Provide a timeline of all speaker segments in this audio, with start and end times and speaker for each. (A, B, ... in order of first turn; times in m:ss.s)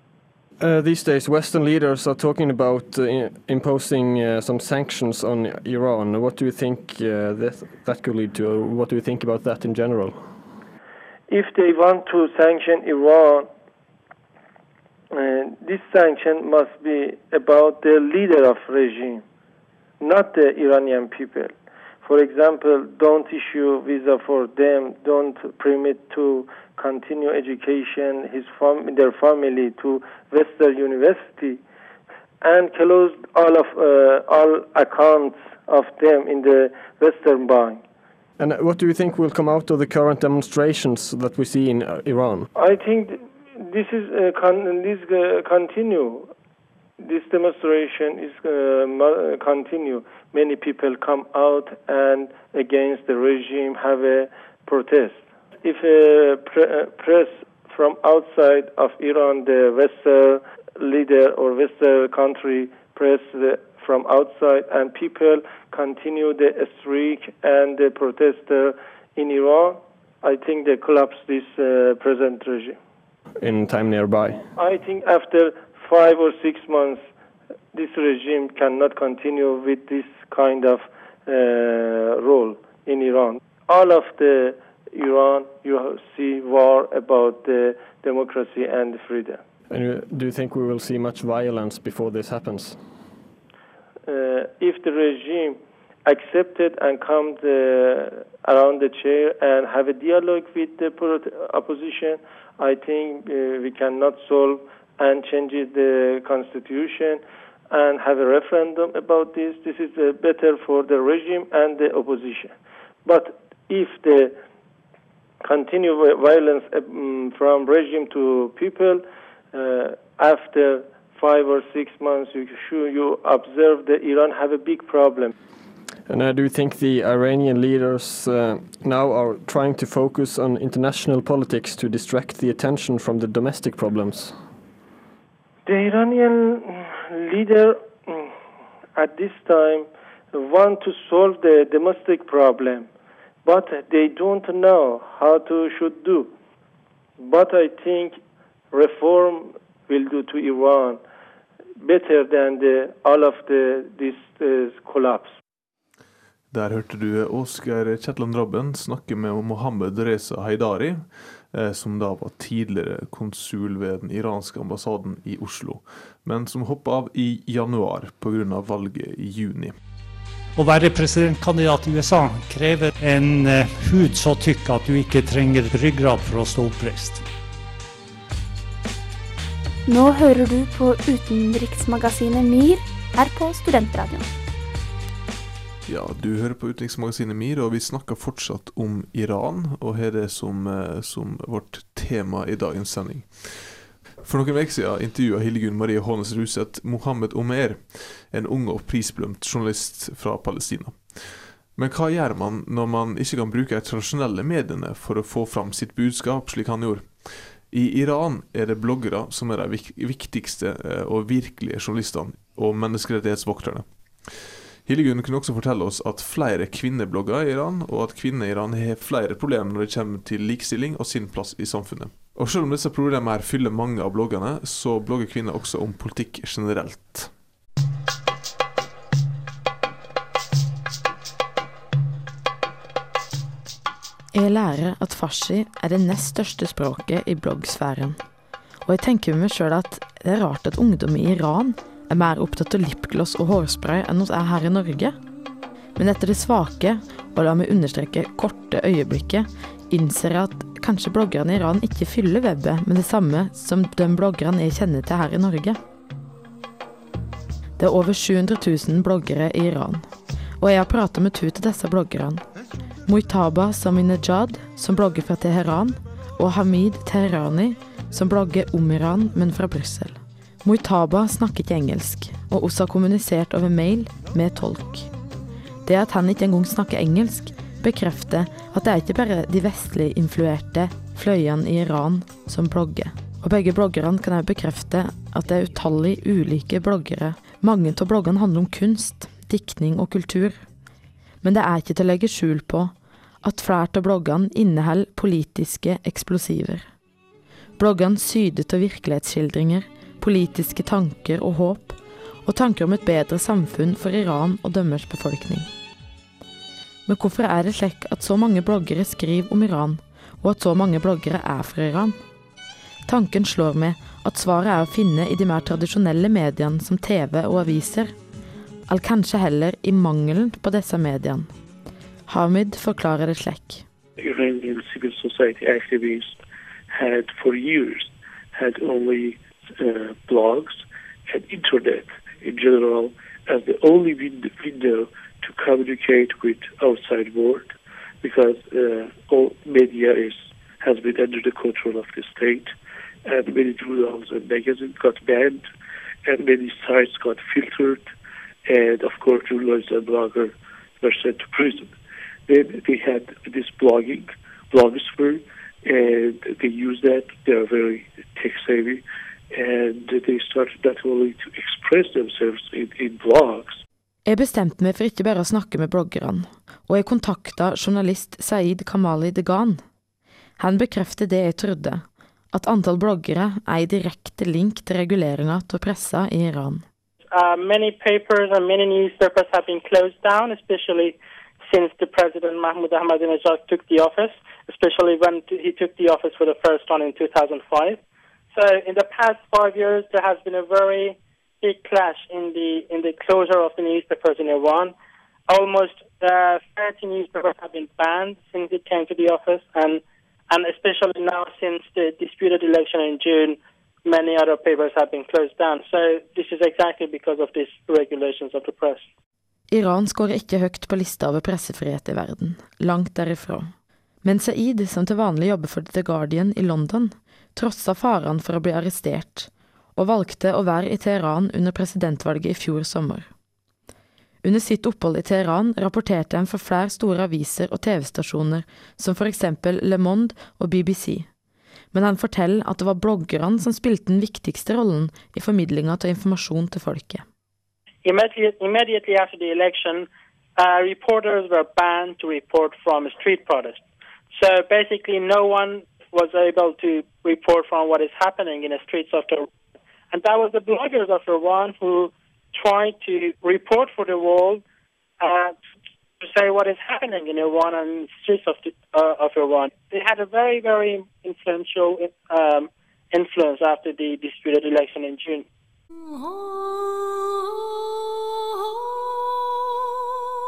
0:00.6-0:10.2 A
0:11.3-0:13.5 B
0:15.1-0:19.2 B
0:20.0-0:21.5 B
0:22.0-0:31.6 B
0:32.4-0:37.8 B
0:38.4-0:42.5 A
0:42.5-0:46.3 B
0:47.0-1:12.8 B
1:13.4-1:14.4 A
1:14.6-1:17.0 B
1:17.7-1:29.4 B
1:29.7-1:32.8 A
1:34.1-1:52.5 B
1:53.0-1:54.3 B
1:55.4-2:05.3 B
2:06.1-2:14.4 A
2:15.6-2:18.3 B
2:19.0-2:22.9 B
2:23.4-2:26.3 B
2:27.2-2:28.2 B
2:28.7-2:31.0 B
2:31.8-2:35.3 B
2:36.5-2:49.7 C
2:50.6-2:57.2 D
2:59.9-3:04.2 E
3:05.9-3:47.3 C
3:54.3-3:58.2 F
3:58.8-4:05.1 F
4:06.0-4:15.8 F
4:17.8-4:20.0 F
4:20.6-4:22.4 F
4:23.0-4:35.1 F
4:35.8-4:50.6 F
4:51.4-4:52.9 F
4:53.4-4:56.8 F
4:57.8-5:05.7 F
5:07.1-5:12.2 F
5:13.1-5:18.1 F
5:18.9-5:21.5 F
5:22.3-5:23.8 F
5:24.2-5:42.7 G
5:43.2-5:45.6 G
5:46.2-5:48.0 G
5:48.7-5:51.9 G
5:52.5-6:03.8 G
6:04.3-6:09.8 F
6:10.6-6:16.8 F
6:17.3-6:28.0 H
6:28.5-6:34.9 H
6:35.5-6:49.0 H
6:49.7-6:53.7 F
6:54.2-7:03.3 F
7:04.4-7:11.3 F
7:11.9-7:17.2 F
7:18.0-7:29.5 H
7:30.1-7:34.6 H
7:35.2-7:35.6 H
7:36.2-7:45.4 H